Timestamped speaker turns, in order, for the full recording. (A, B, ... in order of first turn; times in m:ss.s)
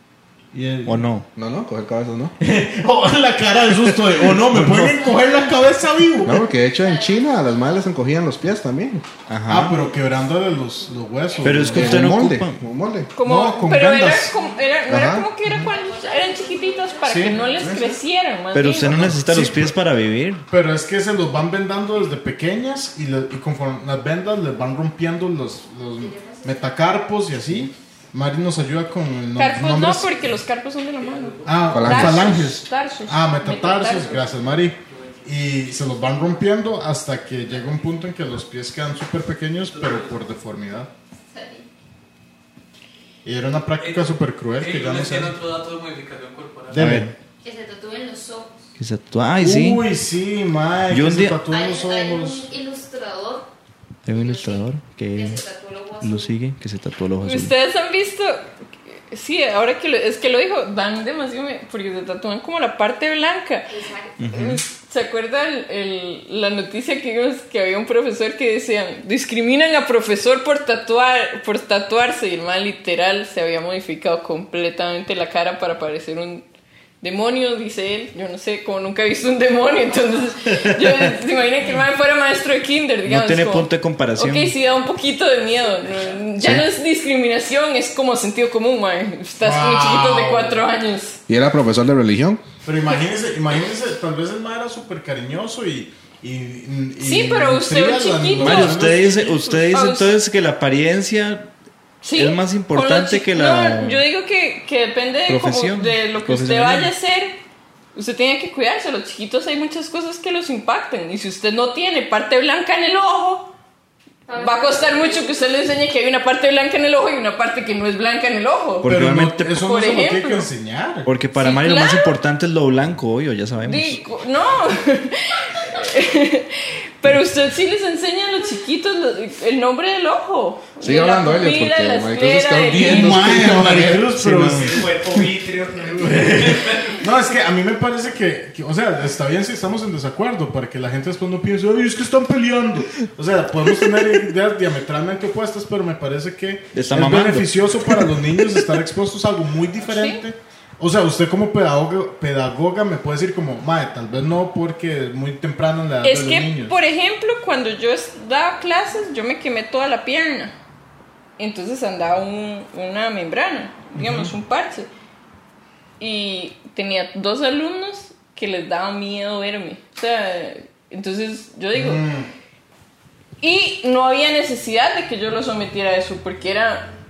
0:00.5-0:01.0 A
0:00.8-0:01.3 B
0:01.4-0:02.4 C
0:02.4-0:06.4 A
0:04.4-0:04.9 B
0:04.6-0:04.9 C
0:06.2-0:09.0 C
0:06.6-0:07.7 D
0:09.3-0:09.8 B
0:09.5-0:12.2 A
0:11.4-0:12.6 B
0:11.7-0:13.1 C
0:13.1-0:18.9 E
0:13.2-0:14.3 A
0:14.9-0:15.3 C
0:15.5-0:17.8 D
0:17.1-0:17.4 A
0:17.6-0:17.9 C
0:18.5-0:20.4 B
0:18.8-0:19.7 A
0:20.5-0:30.1 A
0:26.0-0:26.9 D
0:29.3-0:34.2 E
0:31.0-0:32.0 F
0:31.4-0:40.9 A
0:31.7-0:32.4 C
0:34.0-0:36.4 F
0:39.7-0:40.2 F
0:41.3-0:41.7 D
0:43.2-0:45.4 A
0:43.8-0:47.0 F
0:46.7-0:47.1 A
0:46.8-0:47.1 B
0:47.4-0:48.7 D
0:48.8-0:49.8 B
0:49.4-0:52.5 A
0:50.9-0:51.4 B
0:51.5-0:53.5 D
0:54.0-0:55.4 B
0:54.1-0:56.3 D
0:56.0-0:57.5 B
0:57.2-1:03.7 E
1:03.7-1:04.3 D
1:04.2-1:04.6 B
1:04.3-1:16.4 E
1:17.0-1:31.2 E
1:23.0-1:24.5 B
1:29.4-1:30.6 A
1:31.3-1:32.4 C
1:32.6-1:39.6 A
1:37.0-1:38.8 E
1:38.4-1:41.5 B
1:39.7-1:40.2 E
1:42.0-1:47.4 E
1:42.1-1:44.0 B
1:45.3-1:46.9 B
1:47.9-1:53.5 E
1:54.2-1:55.6 D
1:54.3-1:58.9 E
1:58.8-1:59.6 B
1:58.8-2:01.1 A
1:59.6-2:00.5 E
2:01.0-2:04.0 B
2:01.4-2:02.1 E
2:03.6-2:13.4 E
2:10.8-2:14.3 C
2:12.7-2:15.0 A
2:14.2-2:14.8 B
2:14.6-2:17.0 F
2:15.9-2:36.7 A
2:26.7-2:27.5 B
2:29.8-2:30.2 E
2:36.0-2:40.5 E
2:41.4-2:44.9 E
2:43.9-2:44.3 A
2:46.0-2:52.0 E
2:51.7-2:52.3 A
2:53.4-2:56.9 E